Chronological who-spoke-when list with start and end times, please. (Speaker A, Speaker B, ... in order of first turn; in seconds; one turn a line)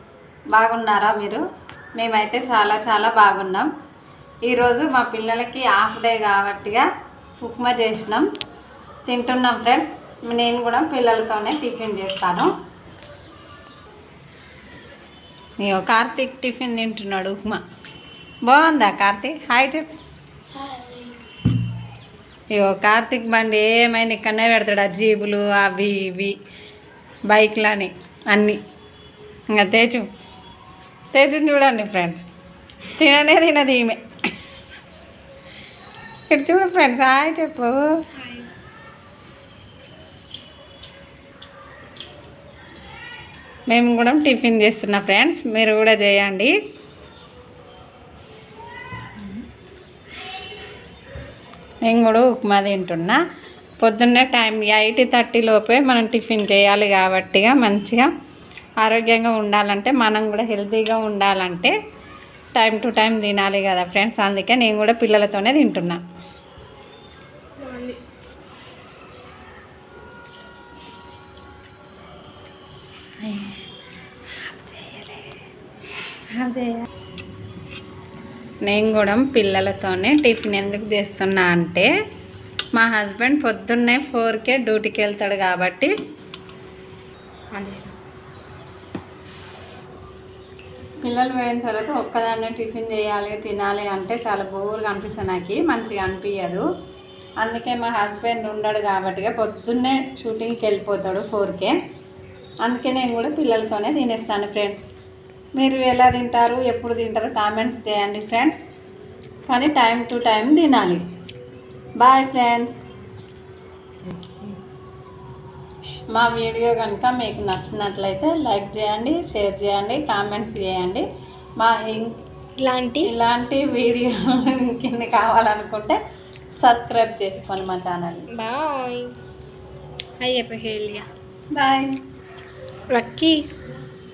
Speaker A: 0.5-1.4
Speaker A: 2.0-3.7
Speaker A: 4.5-6.8
Speaker A: 7.4-8.3
Speaker A: 9.1-12.5
Speaker A: 15.6-17.6
Speaker A: 18.4-19.9
Speaker A: 22.5-26.4
Speaker A: 27.3-28.6
Speaker A: 29.5-30.1
Speaker A: 31.1-32.2
Speaker A: 33.0-34.0
Speaker A: 36.3-37.9
Speaker A: 43.7-46.5
Speaker A: 51.8-53.2
Speaker A: 53.8-58.1
Speaker A: 58.8-61.7
Speaker A: 62.5-66.0
Speaker B: 67.6-68.0
Speaker A: 73.2-73.6
Speaker A: 74.4-75.2
Speaker A: 76.3-76.9
Speaker A: 78.6-81.9
Speaker A: 82.7-85.9
Speaker B: 87.5-87.9
Speaker A: 91.0-96.6
Speaker A: 97.4-101.8
Speaker A: 102.6-104.8
Speaker A: 105.6-108.6
Speaker A: 109.5-111.0
Speaker A: 112.0-112.8
Speaker B: 114.1-114.6
Speaker A: 116.1-121.0
Speaker A: 121.6-122.2
Speaker B: 122.6-123.1
Speaker A: 123.0-126.0
Speaker A: 126.6-128.3
Speaker B: 128.3-129.1
Speaker B: 130.2-131.1
Speaker A: 131.5-132.0
Speaker B: 132.9-133.4